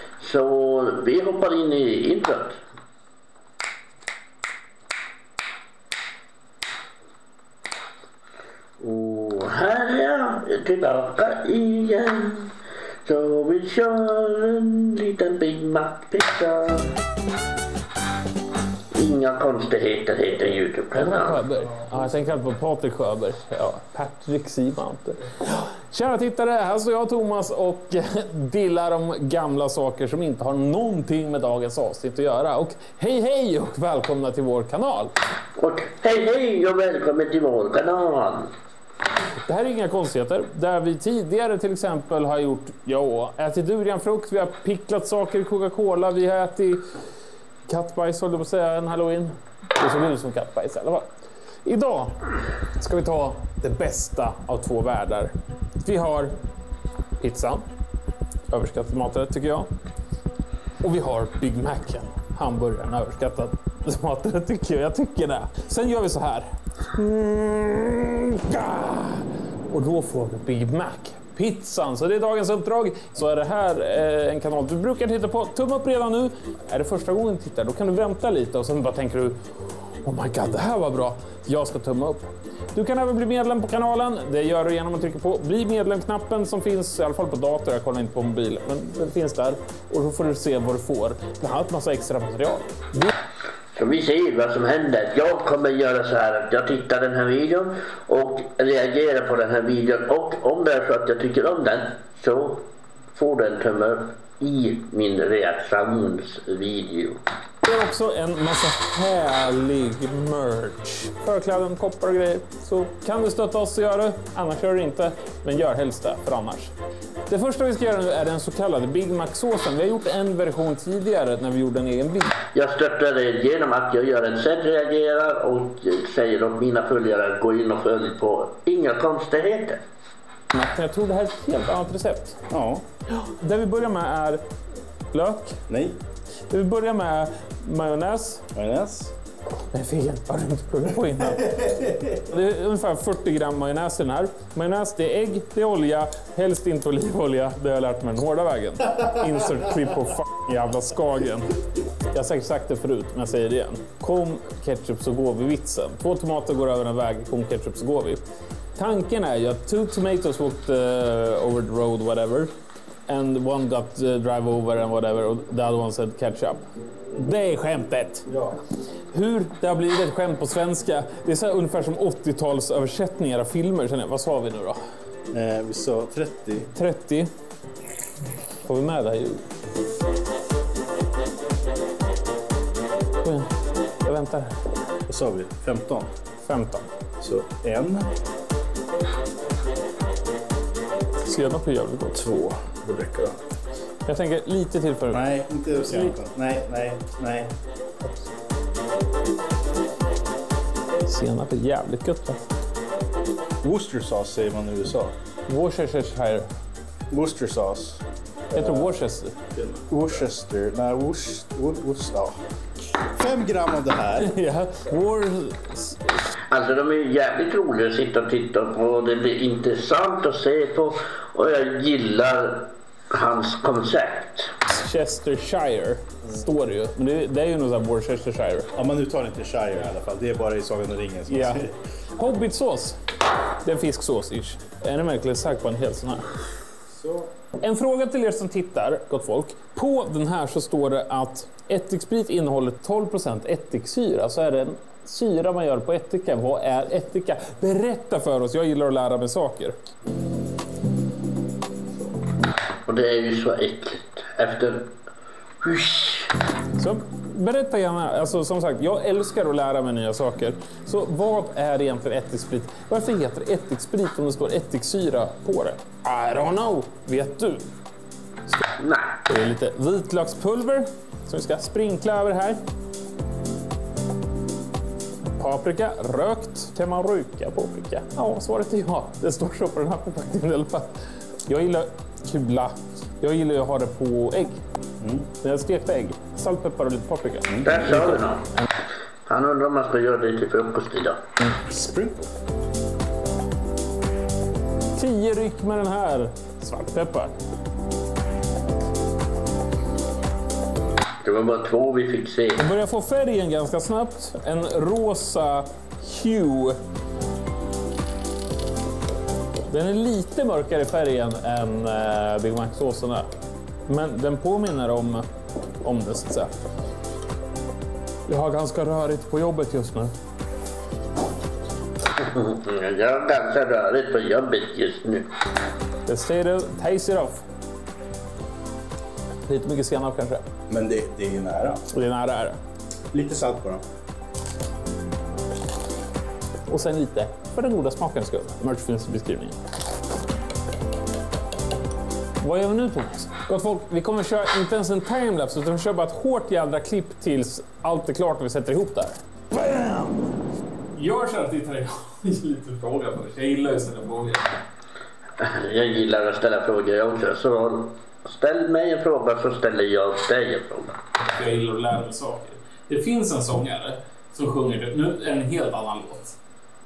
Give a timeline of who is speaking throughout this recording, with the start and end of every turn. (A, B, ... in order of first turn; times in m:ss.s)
0:00.2-0:02.6 A
0:08.8-0:12.5 A
0:13.0-0:16.9 A
0:18.9-0:21.4 A
0:20.9-0:35.1 B
0:35.6-0:38.5 A
0:39.5-0:46.8 B
0:47.7-0:51.1 B
0:51.6-0:52.2 B
0:52.8-0:56.3 B
0:57.2-0:57.6 B
0:58.5-0:59.7 B
1:00.8-1:19.4 B
1:20.0-1:33.1 B
1:33.7-1:47.2 A
1:47.6-1:56.7 B
1:57.3-2:02.3 B
2:02.5-2:09.8 A
2:10.5-2:12.4 B
2:12.5-2:12.8 C
2:13.1-2:14.4 B
2:15.1-2:15.6 B
2:15.7-2:16.0 C
2:16.5-2:18.4 B
2:18.5-2:19.1 C
2:19.7-2:31.5 B
2:32.1-2:38.2 B
2:38.8-2:42.5 B
2:43.1-2:46.6 B
2:47.2-2:48.2 B
2:48.3-2:48.6 C
2:49.1-2:54.8 B
2:55.3-2:56.7 C
2:56.7-2:57.3 B
2:58.6-2:59.4 B
3:03.2-3:03.5 B
3:04.0-3:04.5 B
3:05.1-3:06.1 C
3:06.4-3:06.9 B
3:07.2-3:08.1 C
3:11.2-3:12.2 B
3:12.1-3:13.4 C
3:14.0-3:15.3 B
3:15.1-3:17.5 C
3:15.8-3:16.2 B
3:21.0-3:22.4 B
3:23.6-3:25.1 C
3:25.5-3:26.5 B
3:27.1-3:28.9 C
3:28.5-3:29.9 B
3:29.9-3:32.4 C
3:32.9-3:34.3 C
3:34.2-3:36.0 B
3:36.5-3:44.5 A
3:44.7-3:48.7 B
3:48.8-3:51.7 C
3:51.3-3:51.6 B
3:52.2-3:53.0 B
3:53.6-3:56.2 B
3:56.9-3:57.3 C
3:57.6-4:09.8 B
4:12.9-4:14.9 A
4:15.6-4:16.3 A
4:16.8-4:27.7 B
4:28.8-4:29.2 A
4:29.3-4:32.6 B
4:35.4-4:40.9 B
4:41.5-4:44.6 B
4:45.0-4:45.3 C
4:45.4-4:48.6 B
4:47.5-4:47.8 C
4:47.6-4:48.4 A
4:49.3-4:51.2 A
4:51.5-4:52.2 C
4:55.0-4:57.3 B
5:01.2-5:02.6 A
5:02.6-5:06.8 B
5:09.7-5:13.3 B
5:13.9-5:15.2 B
5:15.8-5:16.5 B
5:18.3-5:20.1 B
5:22.2-5:25.2 A
5:26.0-5:27.4 B
5:29.5-5:30.4 B
5:30.7-5:31.8 C
5:31.9-5:32.6 B
5:33.1-5:33.8 C
5:36.7-5:39.6 B
5:42.4-5:50.1 B
5:50.9-5:54.5 B
5:55.4-6:00.9 A
6:01.3-6:06.4 B